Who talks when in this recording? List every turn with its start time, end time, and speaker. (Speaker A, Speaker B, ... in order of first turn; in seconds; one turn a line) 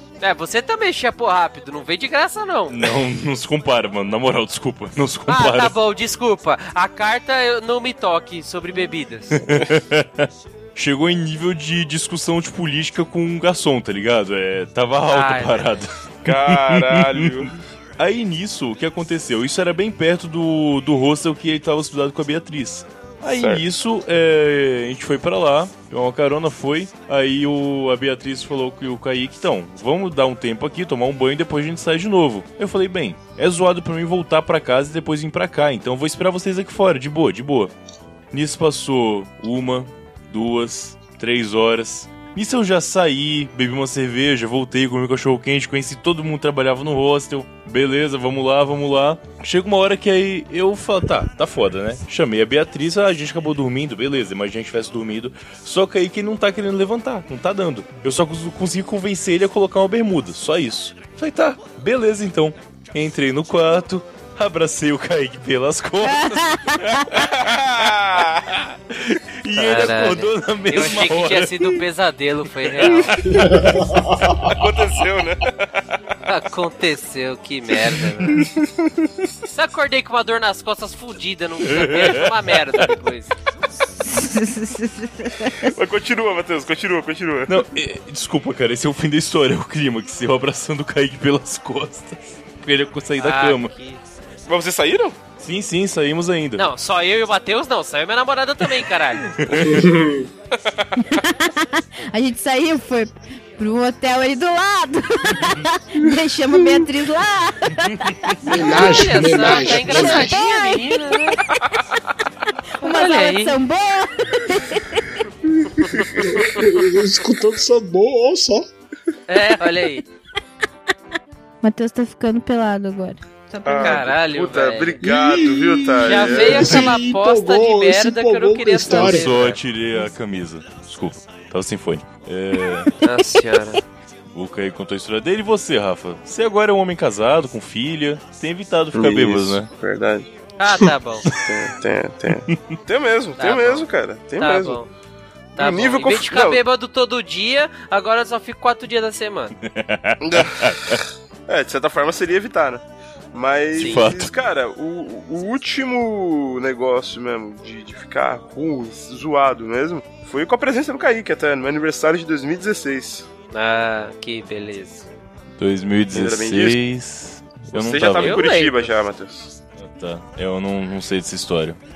Speaker A: 0.2-2.9
Speaker B: 2.7-5.7
Speaker A: 5.3-9.4
Speaker B: 9.3-37.7
Speaker A: 15.1-15.8
Speaker C: 16.2-17.5
Speaker C: 23.3-23.6
Speaker B: 38.3-67.9
Speaker D: 66.0-67.0
Speaker C: 67.2-68.6
Speaker B: 68.9-71.8
Speaker A: 69.6-73.3
Speaker B: 72.6-75.0
Speaker E: 73.2-74.5
Speaker C: 74.4-75.6
Speaker A: 76.2-78.4
Speaker B: 78.0-78.5
Speaker A: 79.5-83.3
Speaker B: 81.6-82.3
Speaker D: 84.0-85.7
Speaker C: 85.6-87.6
Speaker B: 87.5-93.7
Speaker A: 93.2-94.0
Speaker C: 94.5-95.2
Speaker B: 95.4-96.7
Speaker A: 96.6-99.3
Speaker B: 99.3-99.9
Speaker C: 99.5-99.8
Speaker E: 99.5-100.3
Speaker D: 101.0-111.6
Speaker B: 105.3-105.6
Speaker E: 108.4-110.4
Speaker A: 108.5-111.4
Speaker D: 112.8-115.2
Speaker A: 112.8-113.6
Speaker E: 115.8-118.7
Speaker A: 119.3-120.0
Speaker D: 121.6-124.0
Speaker A: 123.6-125.0
Speaker C: 123.6-126.9
Speaker E: 125.0-129.3
Speaker A: 126.0-129.6
Speaker B: 128.8-132.9
Speaker A: 133.0-133.8
Speaker B: 134.3-139.7
Speaker C: 138.9-140.3
Speaker A: 140.6-141.3
Speaker C: 141.4-144.8
Speaker B: 142.5-142.8
Speaker A: 143.4-143.9
Speaker A: 144.4-144.9
Speaker A: 145.6-149.5
Speaker C: 145.6-146.6
Speaker B: 149.6-151.0
Speaker C: 150.2-163.3
Speaker B: 153.8-154.3
Speaker A: 153.8-154.1
Speaker A: 163.5-165.1
Speaker B: 165.6-168.5
Speaker C: 166.1-166.8
Speaker C: 167.7-169.5
Speaker A: 168.1-168.9
Speaker B: 169.8-171.8